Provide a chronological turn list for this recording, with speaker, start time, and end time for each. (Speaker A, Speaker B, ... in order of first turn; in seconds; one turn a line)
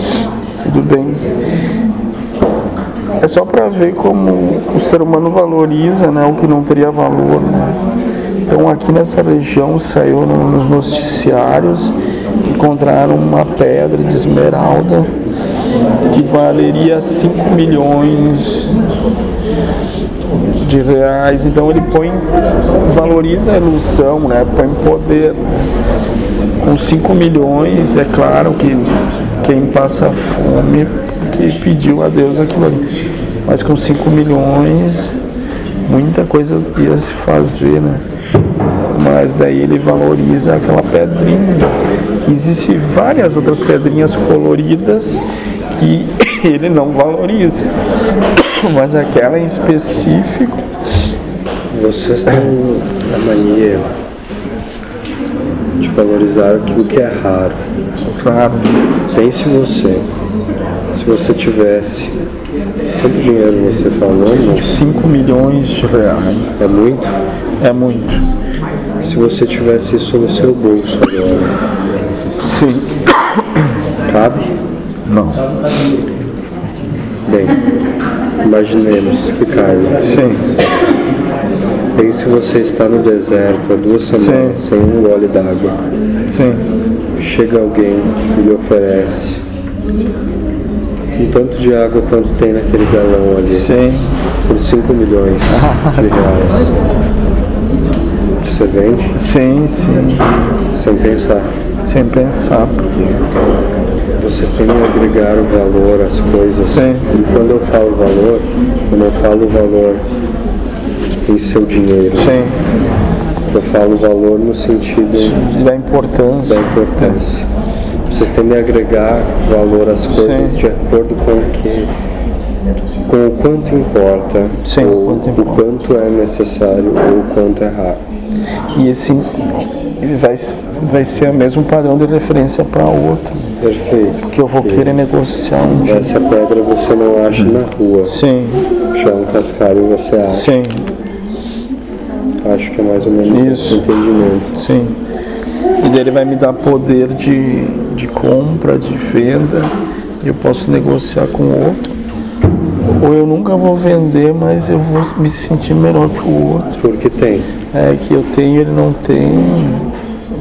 Speaker A: 0.6-1.2
Speaker A: 3.2-7.8
Speaker A: 8.4-15.1
Speaker A: 16.1-18.8
Speaker A: 20.4-25.5
Speaker A: 26.6-32.9
Speaker A: 33.5-35.1
Speaker A: 35.8-38.0
Speaker A: 38.9-45.2
Speaker A: 45.7-47.7
Speaker A: 48.3-50.6
Speaker B: 51.7-53.9
Speaker B: 55.8-57.6
Speaker A: 58.1-58.8
Speaker B: 59.1-60.1
Speaker B: 60.9-62.1
Speaker B: 63.0-64.8
Speaker A: 64.5-66.6
Speaker B: 66.6-67.2
Speaker A: 67.6-68.2
Speaker B: 69.0-71.5
Speaker A: 72.3-73.7
Speaker B: 74.0-74.5
Speaker A: 75.1-75.4
Speaker B: 77.2-77.6
Speaker B: 78.4-80.2
Speaker A: 80.0-80.5
Speaker B: 81.9-85.8
Speaker A: 84.1-84.6
Speaker A: 86.3-86.7
Speaker B: 87.2-89.4
Speaker B: 91.2-93.7
Speaker A: 93.5-94.1
Speaker B: 94.4-96.8
Speaker A: 95.5-96.1
Speaker B: 98.4-99.2
Speaker A: 99.1-100.3
Speaker B: 100.7-101.5
Speaker A: 101.8-103.1
Speaker B: 104.2-110.0
Speaker A: 106.7-107.1
Speaker B: 111.2-112.4
Speaker A: 112.2-112.6
Speaker B: 113.5-115.5
Speaker A: 115.2-117.2
Speaker B: 116.4-117.5
Speaker B: 118.1-121.9
Speaker A: 120.1-120.6
Speaker B: 123.0-128.0
Speaker A: 124.6-125.6
Speaker A: 128.7-133.5
Speaker B: 133.6-135.0
Speaker A: 134.3-136.1
Speaker B: 135.8-138.2
Speaker A: 138.0-138.7
Speaker B: 138.9-140.5
Speaker A: 140.3-140.8
Speaker B: 142.4-144.6
Speaker A: 143.3-143.8
Speaker A: 144.5-145.0
Speaker A: 145.8-151.9
Speaker A: 152.9-156.7
Speaker B: 156.7-157.5
Speaker A: 157.7-159.9